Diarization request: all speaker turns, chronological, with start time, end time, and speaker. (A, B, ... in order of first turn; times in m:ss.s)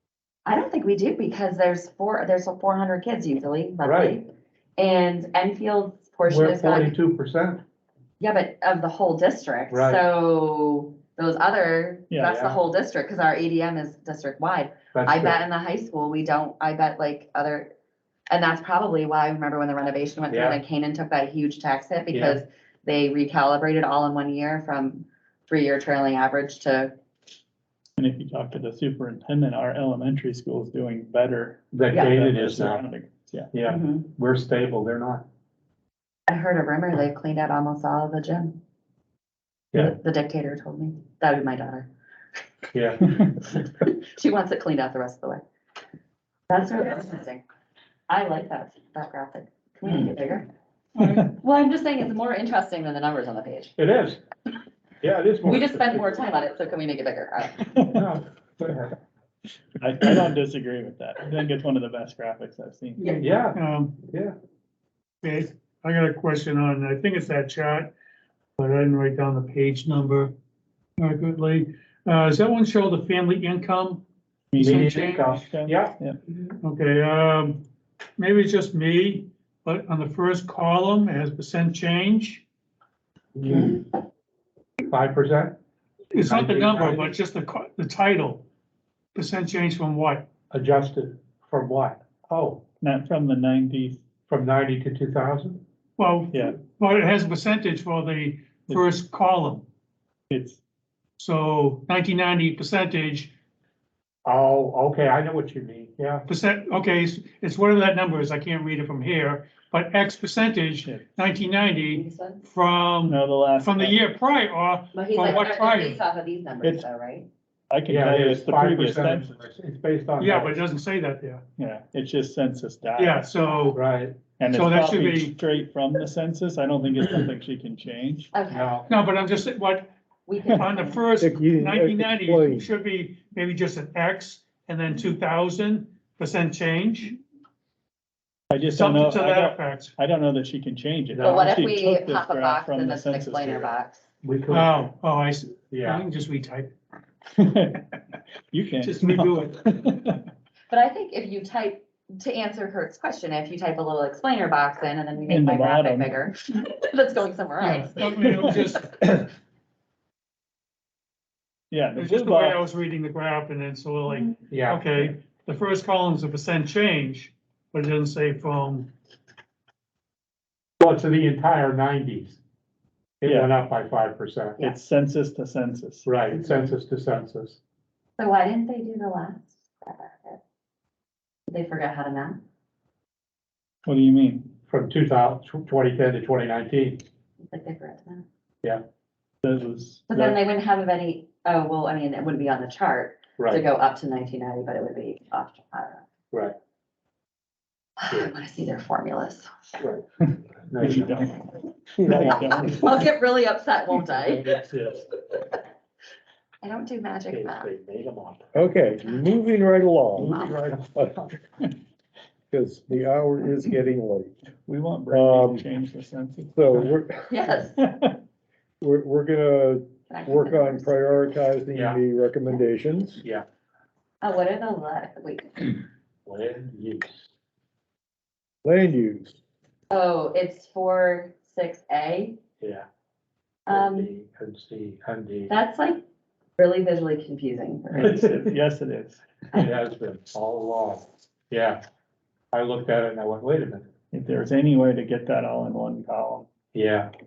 0:00.4-0:06.9 A
0:03.8-0:04.2 B
0:06.3-0:07.6 B
0:08.2-0:17.7 A
0:09.7-0:10.0 B
0:12.2-0:12.6 B
0:14.9-0:15.4 B
0:18.3-0:26.9 A
0:20.3-0:20.6 B
0:22.1-0:22.4 B
0:28.0-0:33.5 C
0:31.7-0:32.8 B
0:31.9-0:32.2 A
0:33.5-0:35.2 B
0:33.7-0:34.1 A
0:36.3-0:38.6 A
0:39.8-0:41.9 A
0:42.7-0:43.1 B
0:43.9-0:45.4 A
0:46.5-0:47.4 A
0:48.1-0:50.5 A
0:51.0-0:51.3 D
0:51.3-0:53.7 A
0:53.8-0:54.2 B
0:55.0-0:56.2 B
0:55.4-0:57.7 A
0:57.9-0:59.0 B
0:59.8-1:03.0 C
1:03.0-1:03.3 A
1:03.2-1:04.3 B
1:03.5-1:04.0 D
1:05.2-1:07.9 D
1:08.6-1:10.3 D
1:11.0-1:14.0 D
1:14.5-1:16.2 C
1:14.6-1:15.5 D
1:14.6-1:16.0 B
1:16.6-1:17.6 D
1:18.2-1:22.4 D
1:23.4-1:23.8 E
1:24.9-1:25.6 B
1:26.1-1:28.4 D
1:26.1-1:27.1 B
1:29.1-1:30.2 D
1:30.5-1:32.6 B
1:32.8-1:34.0 C
1:34.3-1:35.6 B
1:36.0-1:39.6 D
1:36.3-1:36.6 C
1:40.3-1:40.6 C
1:41.2-1:43.3 D
1:44.2-1:46.2 B
1:46.3-1:56.0 D
1:51.9-1:52.4 A
1:53.1-1:54.0 C
1:54.9-1:57.3 A
1:57.7-1:59.4 C
1:57.9-2:00.6 B
2:00.2-2:01.4 D
2:01.6-2:03.2 C
2:03.0-2:03.8 D
2:03.7-2:04.2 B
2:04.4-2:08.3 C
2:04.5-2:05.3 D
2:08.3-2:08.7 A
2:08.5-2:08.9 B
2:08.9-2:09.9 D
2:10.3-2:11.0 A
2:10.6-2:17.2 D
2:11.2-2:12.7 E
2:18.5-2:23.8 C
2:18.7-2:19.9 D
2:21.1-2:21.5 B
2:21.2-2:24.0 A
2:24.2-2:24.9 B
2:24.5-2:26.7 D
2:25.7-2:26.0 B
2:27.3-2:27.9 C
2:28.5-2:30.3 C
2:28.8-2:29.6 D
2:30.7-2:38.6 A
2:35.2-2:36.2 C
2:37.6-2:39.2 D
2:41.7-2:42.6 C
2:42.0-2:48.9 D
2:44.5-2:44.8 B
2:50.8-2:52.4 B
2:53.2-2:54.7 B
2:53.2-2:53.5 C
2:54.6-2:56.1 C
2:56.0-2:57.6 B
2:58.2-3:00.4 A
3:01.5-3:02.4 A
3:03.8-3:04.6 C
3:04.6-3:07.0 B
3:07.4-3:08.2 A
3:09.4-3:10.4 C
3:10.1-3:16.0 A
3:13.4-3:13.6 B
3:18.0-3:19.5 A
3:20.7-3:21.2 B
3:20.8-3:22.9 C
3:22.0-3:22.5 E
3:22.1-3:24.6 A
3:24.1-3:25.0 B
3:26.6-3:27.7 A
3:27.3-3:28.4 B
3:28.5-3:31.2 E
3:30.2-3:30.9 B
3:30.2-3:30.5 A
3:32.5-3:34.4 E
3:34.6-3:36.8 C
3:35.1-3:35.7 E
3:36.5-3:37.3 E
3:37.3-3:37.8 A
3:37.8-3:38.2 C
3:38.8-3:43.2 E
3:40.1-3:40.9 A
3:41.7-3:42.0 B
3:44.2-3:45.8 A
3:46.2-3:47.2 B
3:48.6-3:49.4 E
3:49.9-3:52.4 A
3:52.6-3:52.8 B
3:53.7-3:54.1 A
3:53.7-3:55.5 B
3:55.5-3:56.0 A
3:56.6-3:58.3 A
3:57.9-3:59.2 C
3:58.0-3:58.3 B
3:59.5-4:01.8 B
4:02.5-4:03.9 B
4:04.1-4:06.5 C
4:06.7-4:07.1 B